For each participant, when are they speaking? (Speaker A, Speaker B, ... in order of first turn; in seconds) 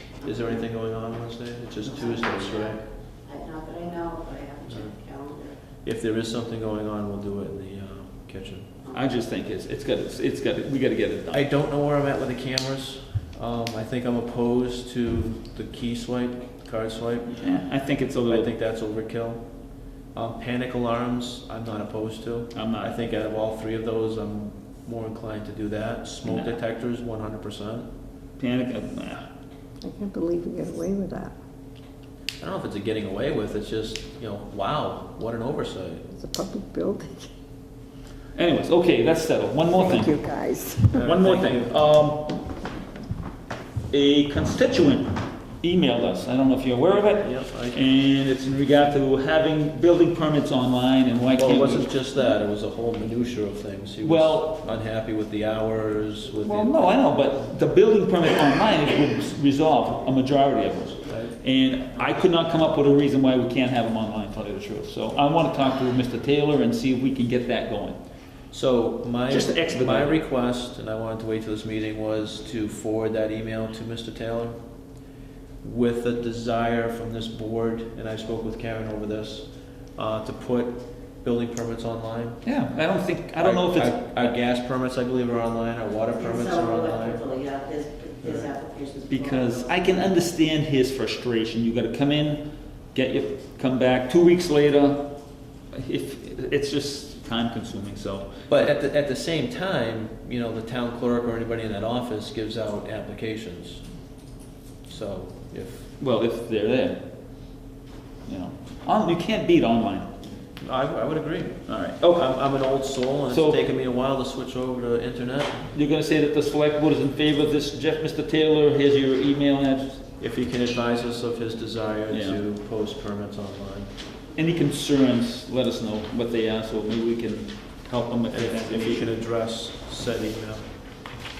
Speaker A: 0.2-2.8, 5.8-8.7, 11.3-17.4, 18.3-19.5, 20.1-27.9, 32.4-36.1, 41.0-41.7, 46.9-47.8, 51.3-57.0, 68.5-74.6, 75.6-82.4, 83.4-87.2, 88.2-88.5, 98.5-103.8, 104.9-105.9, 110.6-111.6, 112.1-115.7, 120.2-123.9, 128.3-130.6
Speaker B: 1.8-5.6, 86.2-89.8
Speaker C: 8.9-11.5, 17.3-18.5, 22.5-23.0, 26.2-26.6, 28.4-29.3, 38.4-40.2, 40.9-42.4, 43.9-51.9, 54.0-54.6, 56.4-68.0, 69.3-70.2, 82.4-84.3, 89.1-95.1, 95.7-98.3, 106.0-107.0, 108.3-110.1, 111.7-112.3, 113.3-113.6, 115.7-120.0, 122.1-122.4, 124.3-129.1
Speaker D: 29.8-31.3, 36.1-37.3, 39.7-41.0